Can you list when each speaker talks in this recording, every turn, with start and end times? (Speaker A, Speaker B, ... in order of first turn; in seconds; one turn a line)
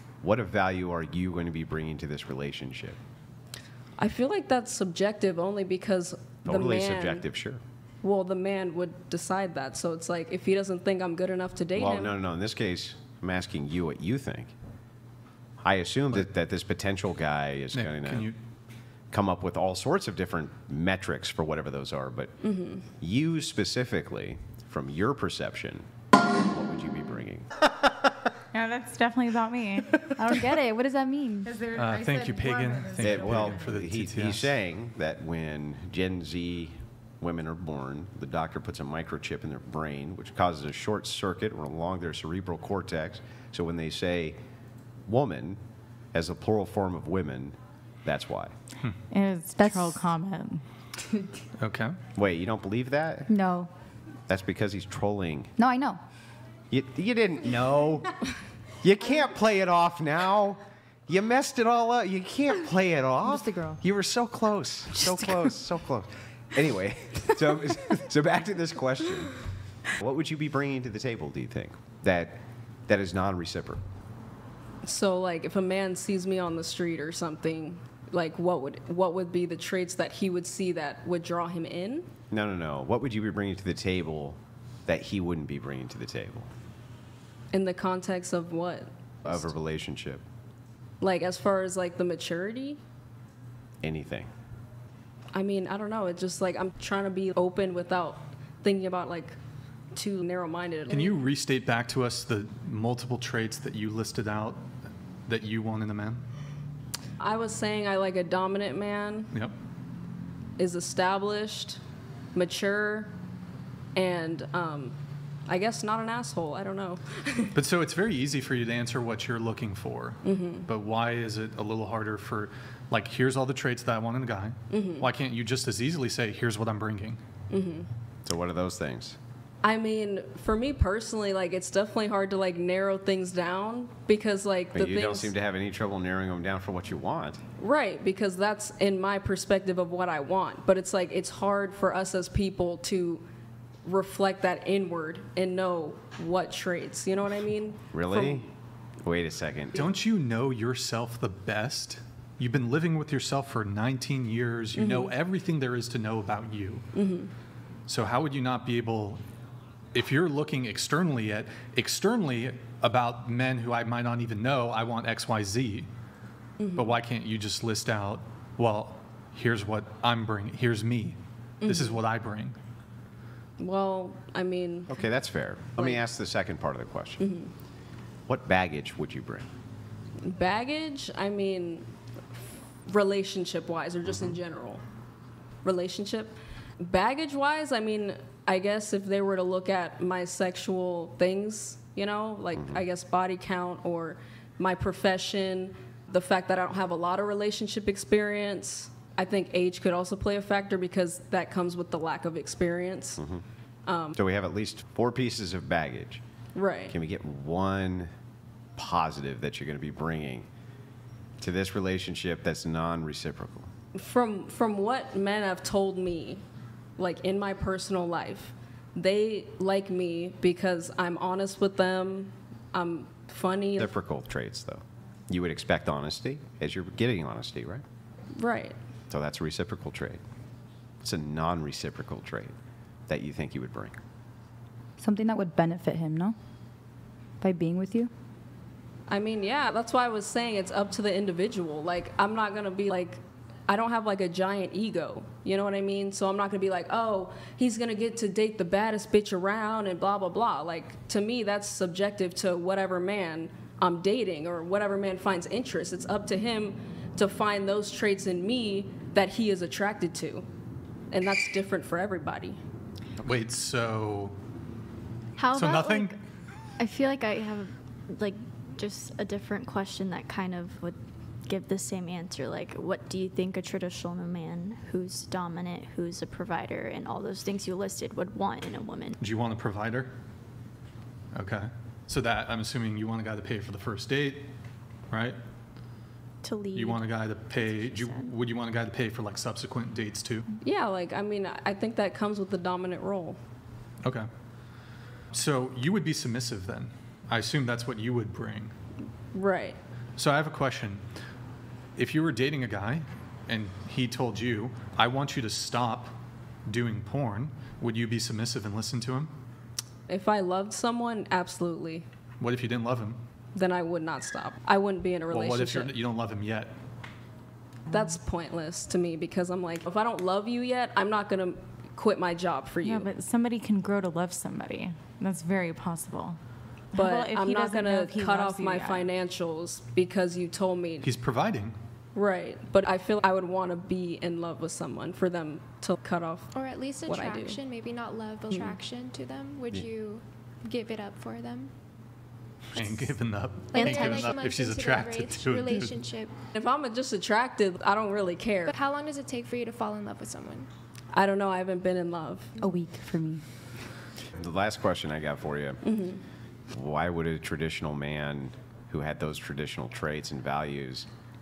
Speaker A: 0.2-3.0
Speaker B: 4.0-7.2
Speaker A: 6.5-7.6
Speaker B: 8.0-12.2
Speaker A: 11.8-14.5
Speaker A: 15.6-18.3
Speaker C: 17.7-18.4
Speaker A: 19.1-22.4
Speaker B: 22.4-22.9
Speaker A: 23.0-25.9
Speaker A: 26.5-27.5
Speaker D: 28.5-30.4
Speaker E: 30.2-31.5
Speaker D: 31.4-33.6
Speaker C: 31.7-34.5
Speaker A: 33.0-44.4
Speaker A: 45.1-45.6
Speaker A: 46.1-48.5
Speaker D: 49.1-50.6
Speaker E: 49.6-50.0
Speaker C: 51.6-52.0
Speaker A: 52.1-53.3
Speaker E: 53.3-53.7
Speaker A: 54.3-55.5
Speaker E: 55.6-56.0
Speaker A: 56.7-58.1
Speaker A: 58.8-69.4
Speaker E: 63.3-63.8
Speaker A: 70.0-73.8
Speaker B: 74.8-82.1
Speaker A: 82.3-86.5
Speaker B: 87.5-89.5
Speaker A: 89.3-90.2
Speaker B: 91.0-92.8
Speaker A: 93.8-94.3
Speaker B: 95.3-99.4
Speaker B: 100.0-101.2
Speaker C: 100.9-104.6
Speaker C: 105.3-106.2
Speaker B: 107.2-109.3
Speaker B: 110.6-111.8
Speaker B: 112.3-113.1
Speaker B: 114.0-115.0
Speaker B: 115.5-117.5
Speaker C: 117.5-127.2
Speaker B: 120.2-120.7
Speaker B: 124.7-125.1
Speaker B: 127.5-127.9
Speaker A: 128.2-129.2
Speaker B: 129.6-135.3
Speaker A: 134.8-137.4
Speaker B: 137.6-143.2
Speaker B: 143.8-148.4
Speaker A: 147.9-148.5
Speaker A: 149.0-149.8
Speaker C: 149.8-156.8
Speaker B: 154.8-155.1
Speaker B: 156.9-157.3
Speaker C: 157.9-159.2
Speaker C: 159.9-165.9
Speaker B: 166.6-167.0
Speaker C: 166.8-172.6
Speaker B: 171.6-172.0
Speaker B: 173.6-175.1
Speaker A: 174.9-177.3
Speaker B: 177.2-177.5
Speaker A: 178.3-179.5
Speaker B: 180.2-181.9
Speaker B: 182.9-184.8
Speaker A: 184.1-184.4
Speaker B: 185.6-203.2
Speaker A: 203.2-203.4
Speaker B: 203.9-204.2
Speaker A: 204.2-206.2
Speaker B: 206.6-206.9
Speaker A: 206.9-208.1
Speaker A: 208.8-210.5
Speaker A: 211.4-213.7
Speaker B: 213.9-216.4
Speaker B: 217.0-223.9
Speaker A: 223.8-227.8
Speaker B: 228.4-228.8
Speaker A: 229.1-230.2
Speaker A: 231.0-232.5
Speaker A: 233.1-234.0
Speaker E: 235.0-236.4
Speaker E: 237.4-238.1
Speaker B: 239.1-260.4
Speaker B: 261.1-262.6
Speaker C: 263.2-264.4
Speaker F: 265.4-266.2
Speaker C: 265.5-266.1
Speaker F: 266.8-279.2
Speaker C: 279.2-280.1
Speaker C: 281.3-284.5
Speaker C: 285.1-285.4
Speaker F: 286.4-288.4
Speaker C: 286.7-290.4
Speaker B: 290.6-293.4
Speaker C: 294.0-294.3
Speaker C: 295.3-298.7
Speaker B: 299.3-299.8
Speaker C: 300.2-301.0
Speaker C: 302.0-306.1
Speaker C: 306.7-309.3
Speaker B: 310.1-312.1
Speaker C: 312.4-313.2
Speaker B: 313.6-315.9
Speaker C: 315.3-316.7
Speaker B: 317.9-323.1
Speaker D: 322.8-326.4
Speaker D: 326.9-329.1
Speaker B: 326.9-331.1
Speaker C: 331.0-331.8
Speaker B: 332.1-336.5
Speaker G: 336.5-341.7
Speaker B: 337.1-337.6
Speaker B: 338.5-338.8
Speaker C: 342.7-346.0
Speaker G: 342.8-343.1
Speaker G: 343.7-346.3
Speaker E: 343.8-344.3
Speaker B: 346.5-348.7
Speaker G: 348.7-350.7
Speaker B: 351.1-352.5
Speaker E: 352.6-353.4
Speaker A: 354.4-355.8
Speaker B: 355.8-356.2
Speaker A: 356.7-361.1